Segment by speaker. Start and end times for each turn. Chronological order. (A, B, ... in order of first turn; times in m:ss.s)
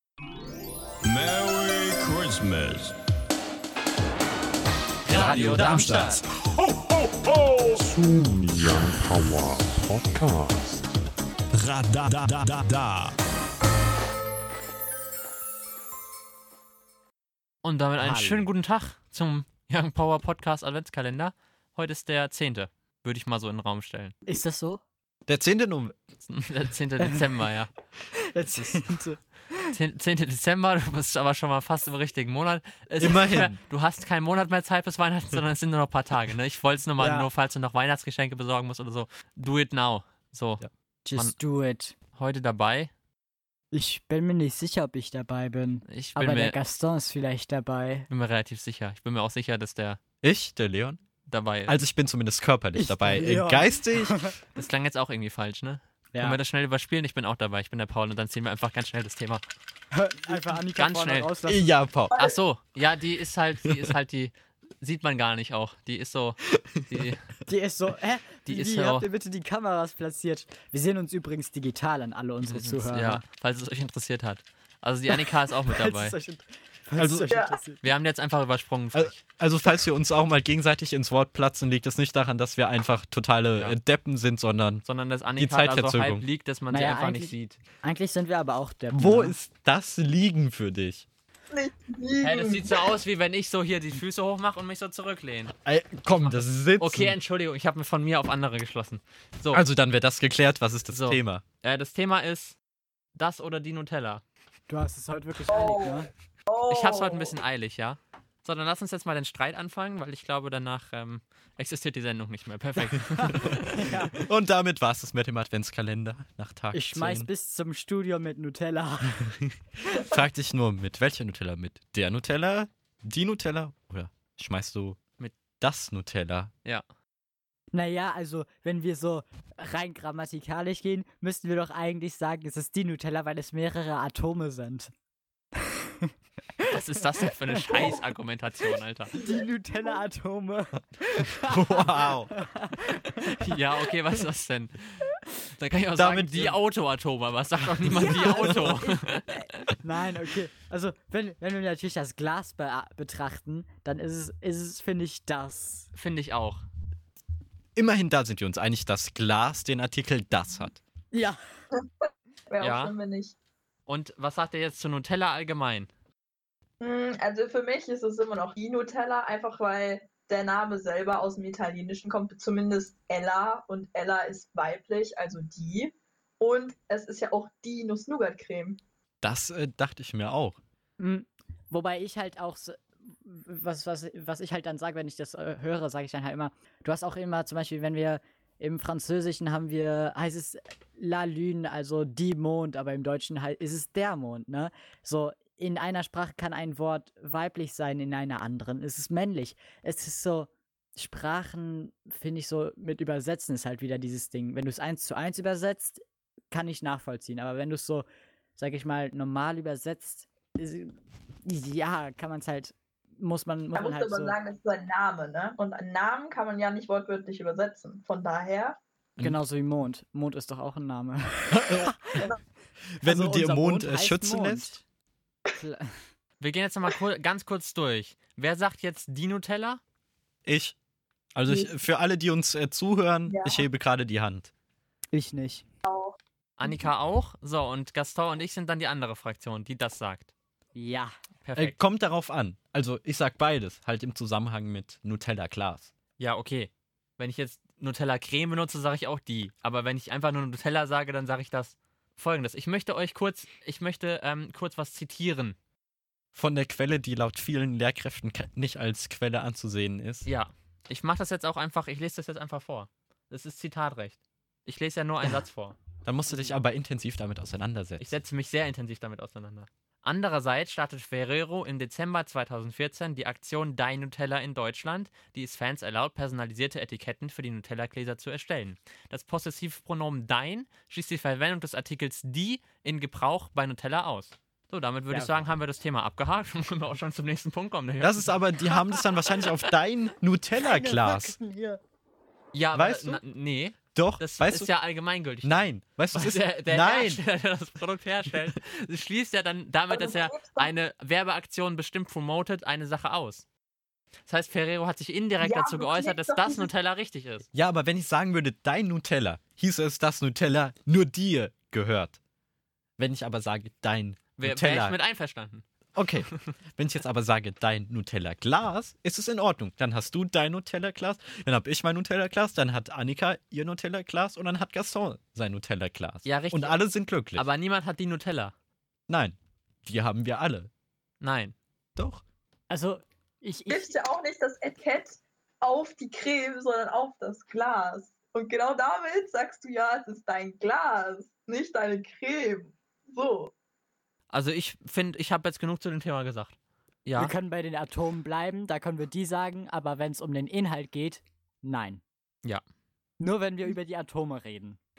0:01.0-0:03.0 A
0:05.1-0:06.1 B
0:05.1-0:06.2 C
0:05.2-0:05.8 D
0:05.2-0:10.5 A
0:11.5-0:13.2 A
0:17.6-0:24.2 C
0:18.0-0:18.5 D
0:24.3-0:24.8 D
0:25.3-0:26.0 B
0:26.2-0:27.7 C
0:27.0-0:27.3 D
0:28.1-0:29.8 D
0:28.5-0:28.9 C
0:29.7-0:40.6 C
0:33.0-0:33.6 B
0:37.0-0:37.3 D
0:41.0-0:42.0 D
0:42.1-0:42.9 C
0:43.7-0:48.1 D
0:45.9-0:46.6 C
0:48.1-0:50.0 C
0:50.2-0:51.0 B
0:51.3-0:51.8 C
0:51.7-0:54.3 B
0:52.8-0:54.4 D
0:54.6-0:59.4 C
0:56.1-0:56.4 D
0:59.9-1:01.6 D
1:00.8-1:01.3 C
1:01.5-1:02.2 B
1:02.2-1:07.3 C
1:07.5-1:13.2 D
1:08.4-1:09.1 C
1:12.4-1:16.2 C
1:15.1-1:17.8 D
1:17.0-1:17.3 B
1:17.3-1:17.6 E
1:17.8-1:19.2 C
1:18.9-1:24.8 B
1:24.8-1:27.6 C
1:25.4-1:26.3 B
1:26.7-1:29.4 D
1:28.9-1:31.1 B
1:31.5-1:32.9 E
1:32.2-1:35.5 C
1:35.6-1:37.2 B
1:36.1-1:39.6 C
1:39.5-1:41.4 B
1:40.9-1:42.6 C
1:43.2-1:44.2 C
1:44.7-1:46.1 D
1:45.5-1:47.3 E
1:46.7-1:54.0 C
1:53.2-1:54.1 D
1:53.3-1:57.3 B
1:56.7-1:59.2 D
1:59.2-2:05.0 B
2:05.6-2:06.5 B
2:07.7-2:14.9 D
2:15.6-2:16.8 D
2:16.7-2:19.2 C
2:19.2-2:23.5 D
2:19.2-2:20.0 E
2:21.4-2:22.3 B
2:23.3-2:29.5 C
2:26.0-2:26.6 B
2:27.9-2:35.9 D
2:35.9-2:36.6 C
2:37.8-2:40.8 B
2:41.1-2:41.4 D
2:42.5-2:43.4 E
2:42.6-2:42.9 C
2:43.9-2:45.9 C
2:46.8-2:58.8 E
2:59.2-3:00.6 B
3:01.0-3:26.0 D
3:26.5-3:28.1 D
3:28.6-3:30.9 D
3:31.4-3:34.4 D
3:33.7-3:38.8 E
3:39.2-3:42.2 D
3:41.5-3:41.9 B
3:43.0-3:44.8 B
3:43.0-3:44.8 D
3:45.6-3:45.9 D
3:46.4-3:49.8 C
3:50.5-3:50.8 B
3:51.4-3:54.5 B
3:51.5-3:51.8 E
3:53.3-3:53.7 E
3:55.1-3:55.6 D
3:55.8-3:56.8 E
3:56.6-4:00.3 C
4:00.8-4:01.1 D
4:01.4-4:01.8 C
4:01.6-4:05.9 B
4:06.2-4:15.6 C
4:16.4-4:20.3 B
4:20.2-4:25.8 C
4:26.0-4:28.2 B
4:26.3-4:26.6 C
4:28.0-4:48.4 C
4:45.1-4:45.4 D
4:48.0-4:51.4 B
4:50.6-4:51.8 D
4:52.5-5:03.5 C
4:52.8-4:53.2 B
4:53.9-4:54.7 B
4:55.4-4:57.2 B
4:59.9-5:00.7 E
5:04.3-5:07.4 C
5:05.4-5:06.7 E
5:07.5-5:12.2 B
5:13.0-5:15.0 B
5:14.4-5:15.6 C
5:16.0-5:27.5 B
5:26.2-5:26.8 C
5:27.4-5:28.5 C
5:29.1-5:30.7 B
5:31.2-5:31.6 C
5:32.0-5:32.2 B
5:32.7-5:34.0 D
5:33.7-5:43.5 E
5:44.3-5:46.6 C
5:47.1-5:47.3 C
5:47.2-5:52.0 D
5:53.2-5:54.8 D